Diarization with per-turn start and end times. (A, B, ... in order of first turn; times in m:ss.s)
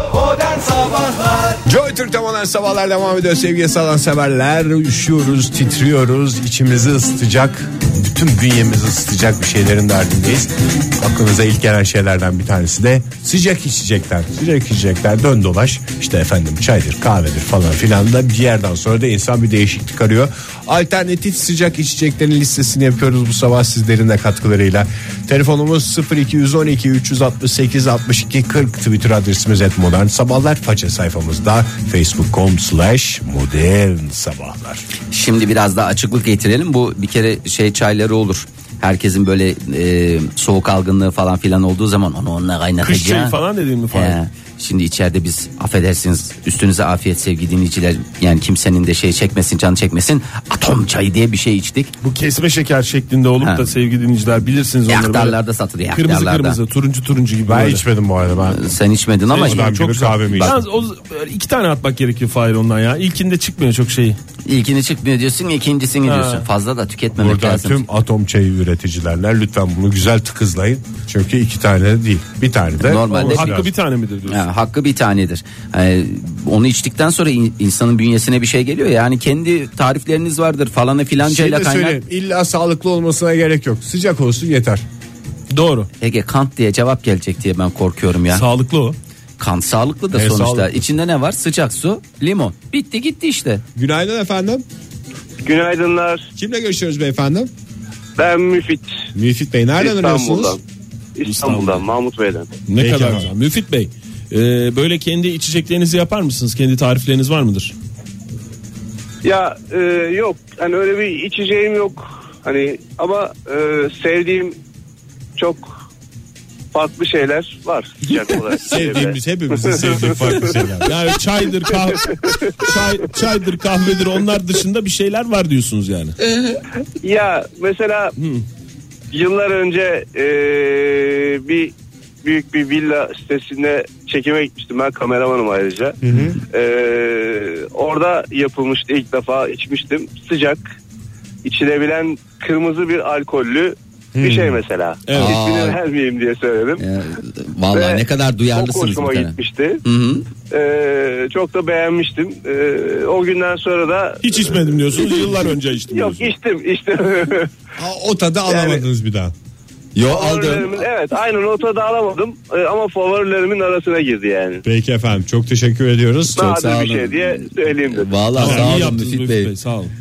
0:01.6-0:34.8 A
0:35.1-0:43.4 B
0:42.8-0:44.2 C
0:43.9-0:51.9 B
0:52.0-0:55.4 C
0:53.4-0:53.7 B
0:54.9-0:56.6 B
0:55.9-0:57.8 C
0:57.4-0:58.7 A
0:58.5-0:59.7 B
0:59.3-1:04.2 C
0:59.4-1:00.6 A
1:00.3-1:00.6 B
1:04.4-1:07.8 B
1:06.0-1:06.5 C
1:07.2-1:13.7 A
1:12.8-1:13.5 B
1:13.1-1:14.5 C
1:14.3-1:22.0 B
1:21.2-1:24.8 A
1:25.5-1:25.9 C
1:26.0-1:28.4 B
1:28.3-1:29.0 C
1:29.4-1:33.6 B
1:30.1-1:30.8 A
1:33.8-1:34.6 A
1:35.4-1:36.3 D
1:36.4-1:37.5 A
1:38.2-1:39.0 D
1:39.2-1:40.6 A
1:39.8-1:40.6 D
1:41.2-1:42.6 D
1:41.2-1:41.9 C
1:42.7-1:47.7 C
1:42.8-1:43.3 A
1:49.2-1:54.6 D
1:55.4-1:55.8 D
1:56.7-2:00.6 D
1:58.6-2:00.9 A
2:00.8-2:06.2 C
2:01.6-2:03.1 D
2:07.0-2:08.1 D
2:08.2-2:08.4 C
2:09.1-2:20.7 D
2:16.0-2:16.4 A
2:21.4-2:26.8 D
2:24.2-2:24.6 A
2:25.1-2:25.4 C
2:25.1-2:25.8 B
2:26.8-2:30.3 B
2:27.7-2:29.8 D
2:30.5-2:35.3 D
2:34.2-2:36.3 C
2:35.9-2:37.5 D
2:37.8-2:39.3 A
2:38.5-2:38.8 D
2:40.0-2:40.8 B
2:40.0-2:44.6 D
2:44.6-2:46.6 A
2:46.3-2:48.1 D
2:46.4-2:49.5 B
2:48.3-2:49.9 C
2:48.4-2:49.0 A